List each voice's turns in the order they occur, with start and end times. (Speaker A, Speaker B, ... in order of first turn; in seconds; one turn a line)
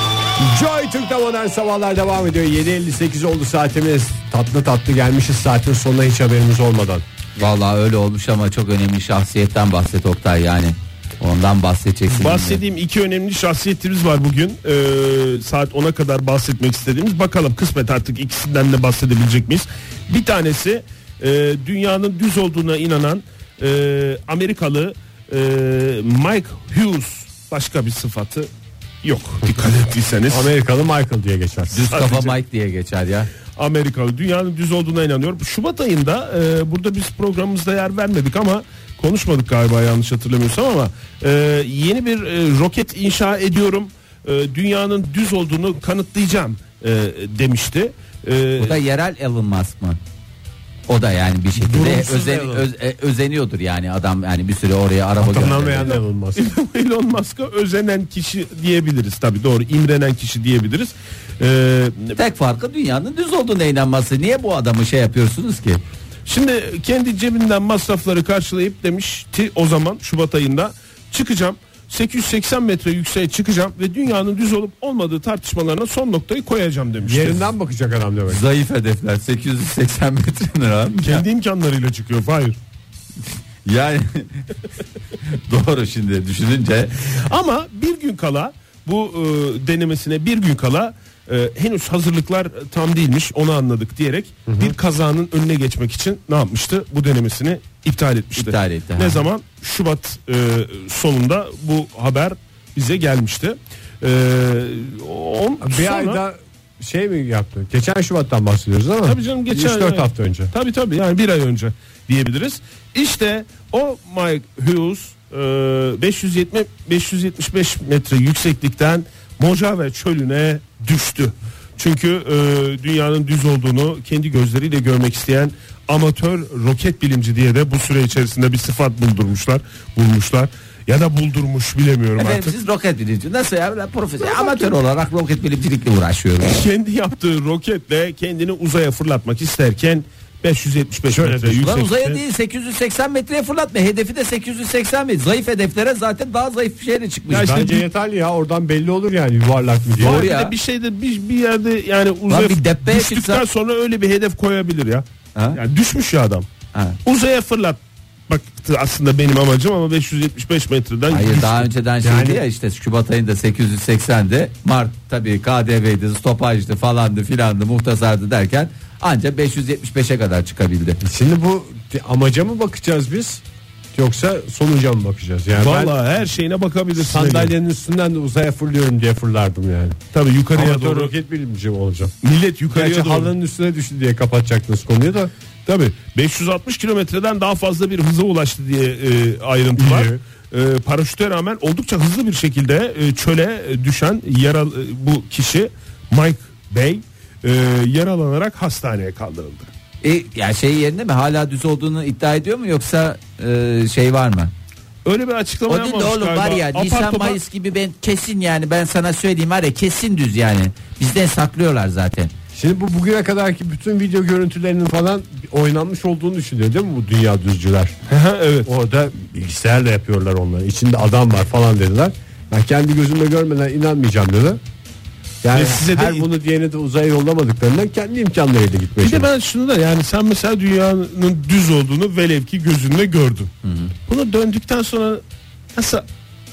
Speaker A: 0.4-7.0
Speaker B: 7.4-12.6
Speaker C: 12.1-28.5
Speaker C: 29.0-30.5
Speaker A: 30.3-31.9
Speaker B: 31.7-33.3
Speaker C: 31.9-32.4
Speaker C: 33.5-48.8
Speaker B: 48.6-50.0
Speaker B: 50.9-56.0
Speaker A: 51.5-52.7
Speaker A: 55.2-56.4
Speaker C: 56.4-62.2
Speaker B: 62.1-65.8
Speaker C: 66.2-77.5
Speaker A: 77.0-78.4
Speaker B: 78.3-81.2
Speaker C: 81.0-82.6
Speaker B: 83.6-84.5
Speaker B: 85.2-87.0
Speaker C: 87.2-106.2
Speaker A: 94.5-94.7
Speaker B: 98.3-99.2
Speaker A: 105.6-110.5
Speaker C: 109.0-132.5
Speaker B: 132.2-136.6
Speaker C: 136.4-142.2
Speaker A: 141.1-141.6
Speaker B: 141.6-147.6
Speaker C: 147.3-147.8
Speaker A: 147.3-150.3
Speaker C: 150.0-156.5
Speaker B: 150.0-150.5
Speaker B: 152.3-153.4
Speaker C: 157.0-161.7
Speaker B: 161.1-171.0
Speaker A: 162.0-162.4
Speaker A: 171.0-173.4
Speaker A: 173.9-176.0
Speaker C: 175.6-177.5
Speaker A: 176.9-180.0
Speaker C: 180.1-181.1
Speaker A: 180.5-182.1
Speaker C: 182.2-183.3
Speaker A: 182.7-185.3
Speaker C: 185.7-199.7
Speaker A: 189.8-190.2
Speaker B: 200.0-204.5
Speaker C: 205.0-207.4
Speaker B: 205.7-212.3
Speaker A: 212.5-217.9
Speaker C: 218.1-218.7
Speaker A: 218.6-224.6
Speaker A: 225.4-229.3
Speaker C: 225.5-226.3
Speaker C: 229.0-233.5
Speaker B: 233.6-233.9
Speaker C: 234.1-235.2
Speaker C: 235.7-236.0